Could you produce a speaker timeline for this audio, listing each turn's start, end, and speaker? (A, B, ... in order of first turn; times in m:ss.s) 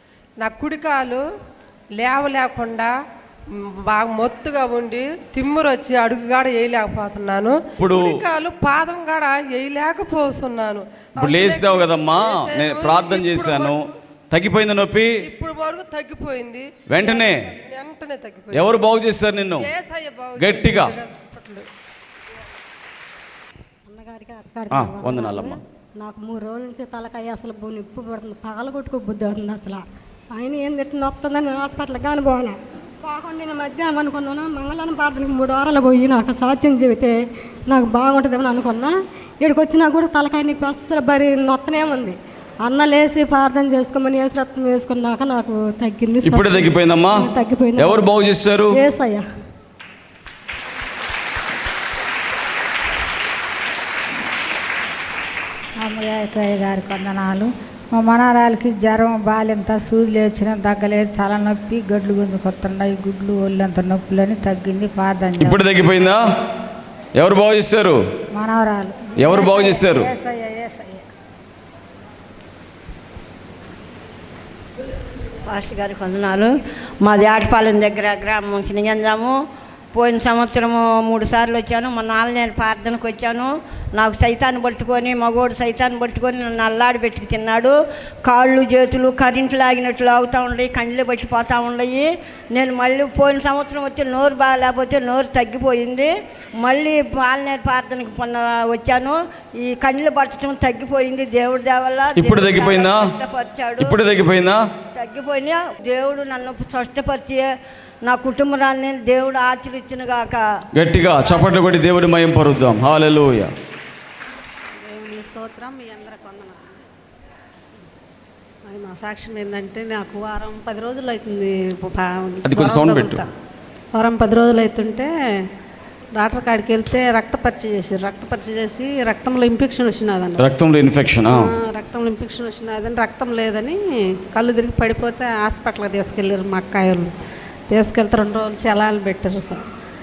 0:00.4-0:01.2 A
0:02.0-0:02.9 A
0:03.9-0:07.5 A
0:07.8-0:08.2 B
0:08.4-0:10.8 A
0:09.3-0:09.7 C
0:11.2-0:15.2 B
0:15.5-0:16.6 A
0:16.2-0:16.5 C
0:16.9-0:17.4 B
0:17.8-0:18.5 A
0:18.5-0:19.7 B
0:19.9-0:20.3 A
0:20.4-0:20.9 B
0:23.9-0:48.0 D
0:24.7-0:25.5 B
0:46.2-0:48.8 B
0:48.7-0:49.2 D
0:55.8-1:05.6 E
1:05.4-1:06.2 B
1:07.2-1:08.0 B
1:08.4-1:11.0 E
1:09.2-1:10.1 B
1:15.5-1:19.4 F
1:19.9-1:43.9 F
1:42.2-1:43.1 B
1:43.8-1:44.6 B
1:44.9-1:47.5 F
1:48.0-1:50.4 F
1:50.7-1:53.5 B
1:54.8-1:56.7 C
1:58.6-2:03.2 C
2:02.4-2:03.2 B
2:03.9-2:05.1 C
2:06.2-2:10.4 C
2:10.4-2:11.5 B
2:11.5-2:13.8 C
2:14.3-2:17.1 C
2:17.7-2:19.6 C